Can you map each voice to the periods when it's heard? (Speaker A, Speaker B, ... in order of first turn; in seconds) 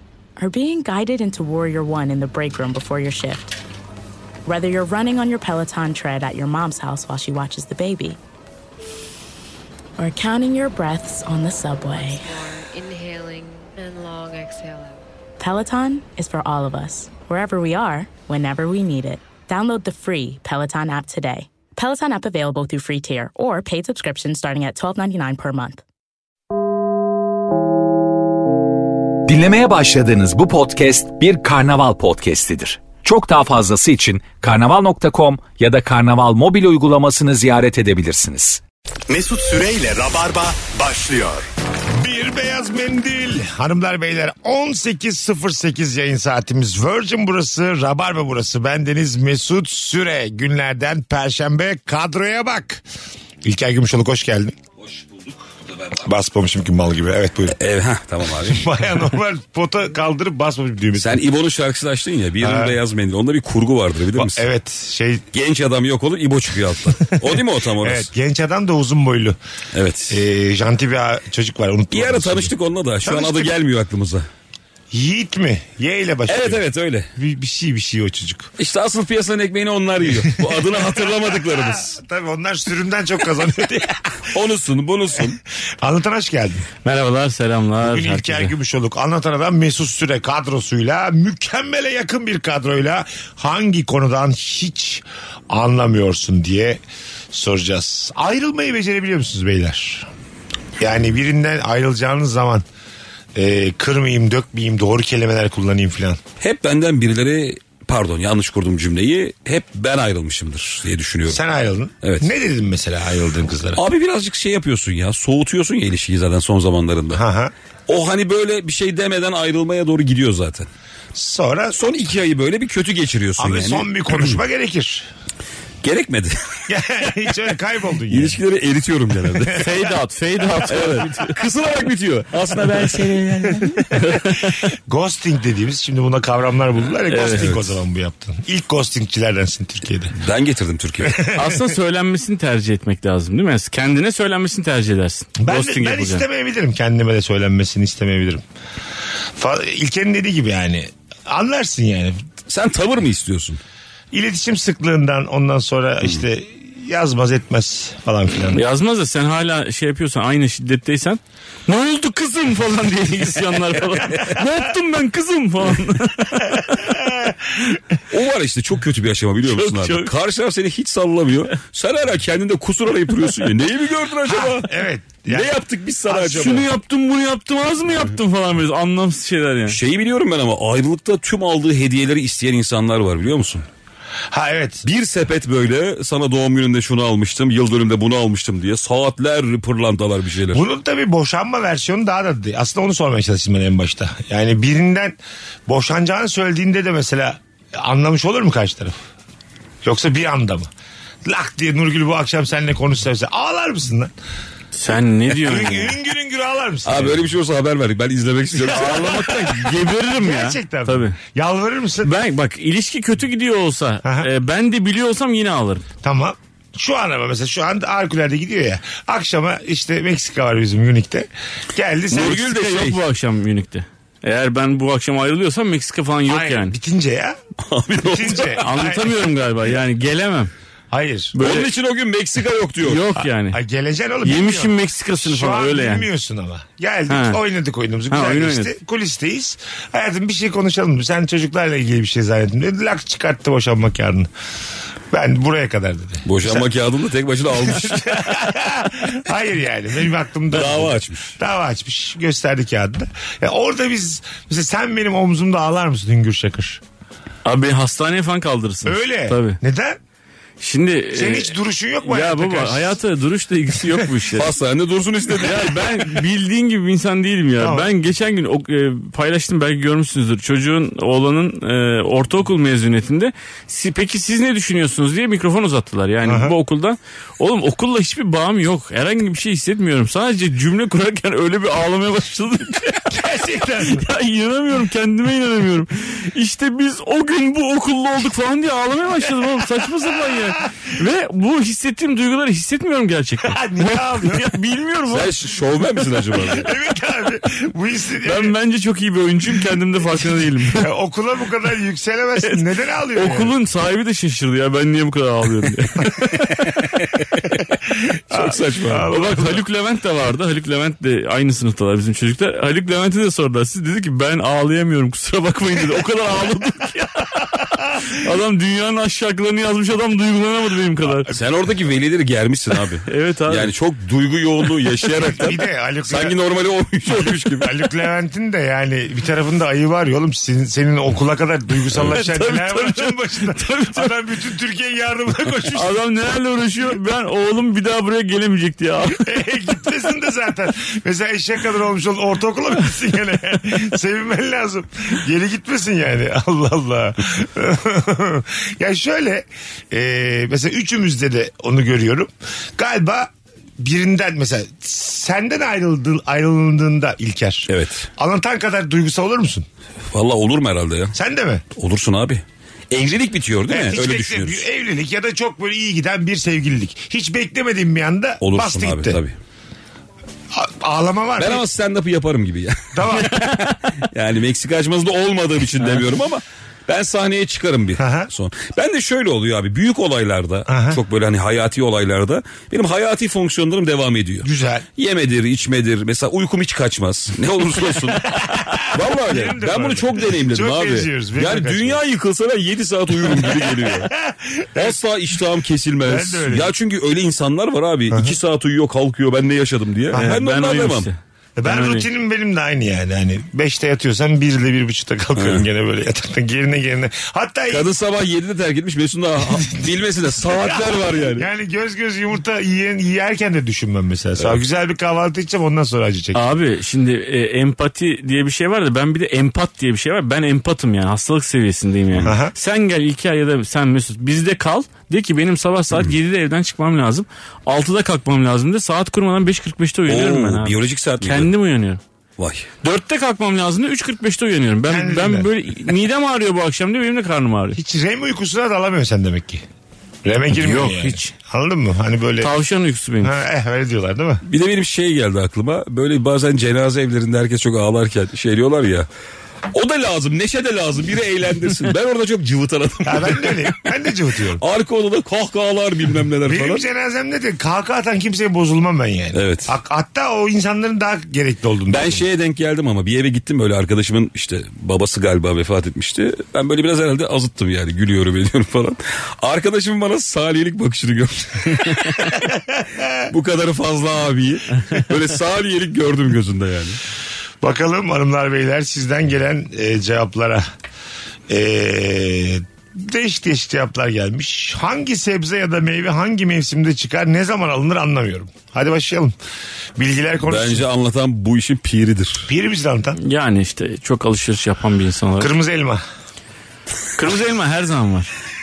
Speaker A: 0.4-3.6, 4.5-8.2, 10.0-12.3, 15.4-25.8
Speaker B: 11.9-15.1
Speaker C: 29.3-41.5
Speaker D: 42.0-52.8, 53.4-54.5, 55.9-57.6, 58.4-61.2, 62.4-62.8, 64.1-65.2, 66.9-69.4, 70.1-73.5, 74.9-76.6, 77.2-78.5, 80.0-84.3, 85.8-86.7, 87.8-96.8, 97.3-100.1, 100.8-102.6, 103.3-106.2, 111.3-113.8, 117.1-117.5, 121.1-121.8, 123.4-125.1, 126.7-128.4, 129.4-129.9, 133.6-134.1, 134.7-140.1, 141.0-141.7, 145.4-148.4, 149.4-152.2, 154.1-158.6, 166.6-167.8, 174.2-175.6, 176.1-176.6, 184.3-184.8, 190.5-199.0, 199.8-200.7, 201.2-204.1, 205.3-207.3, 208.6-212.1, 214.0-214.3, 216.0-222.4, 226.3-227.4, 228.0-229.1, 230.9-231.4, 233.2-244.3, 245.1-246.7, 247.5-256.8, 258.9-260.0, 261.1-263.0, 267.6-267.9, 276.2-276.6, 283.1-284.1, 293.4-294.5, 296.3-298.6, 300.7-303.5, 308.3-309.6, 325.2-326.4, 327.1-336.0, 339.2-359.7, 361.1-361.6, 363.7-369.2, 370.5-371.7, 372.9-373.5, 378.0-378.3, 380.7-381.0, 384.4-384.9, 387.9-392.0, 393.2-395.0, 396.0-396.7, 398.1-398.4, 400.1-400.4, 401.6-407.9, 410.5-416.4, 422.2-422.6, 434.9-435.5, 437.8-439.6, 440.2-442.5, 443.2-444.4, 453.1-454.6, 456.4-462.2, 472.4-473.2, 477.6-480.6, 481.5-489.3, 490.0-490.9, 492.5-493.2, 495.4-496.0
Speaker E: 57.5-58.7, 61.0-64.5, 65.3-68.1, 69.7-70.2, 71.9-74.2, 76.3-77.1, 78.6-82.0, 84.3-85.4, 106.4-111.4, 112.0-112.3, 113.8-117.2, 117.9-120.7, 121.7-124.4, 125.8-126.6, 128.1-129.6, 130.7-133.9, 140.1-141.2, 152.5-153.6, 168.1-174.7, 175.3-176.7, 179.7-183.7, 184.8-190.7, 206.8-209.7, 222.1-223.0, 227.7-228.6, 231.4-233.1, 246.2-248.4, 250.5-251.3, 264.3-266.1, 295.1-296.7, 308.3-309.1, 321.3-327.8, 357.7-358.1, 360.1-361.1, 361.8-364.6, 368.4-369.3, 371.4-394.1, 394.8-401.1, 405.4-405.6, 407.7-411.5, 430.1-431.5, 432.4-432.7, 444.5-449.1, 449.7-453.9, 454.6-456.8, 459.3-459.8, 461.9-472.5, 473.3-477.0, 490.4-492.5
Speaker F: 86.8-88.5, 129.5-133.0, 133.9-134.6, 137.1-137.5, 141.3-146.2, 158.5-166.9, 169.4-170.1, 176.1-179.8, 204.8-206.0, 208.7-211.2, 212.0-215.9, 222.1-226.8, 228.6-230.5, 231.3-231.7, 232.8-233.6, 234.2-236.1, 237.1-237.4, 238.1-238.7, 257.4-259.6, 260.6-261.5, 262.0-264.5, 265.4-295.3, 298.2-300.9, 303.1-306.5, 309.1-321.3, 323.1-323.7, 332.1-334.1, 335.7-339.4, 400.1-402.1, 416.3-432.0, 432.8-437.8, 440.5-441.3, 442.4-443.3, 493.2-495.5, 497.2-498.3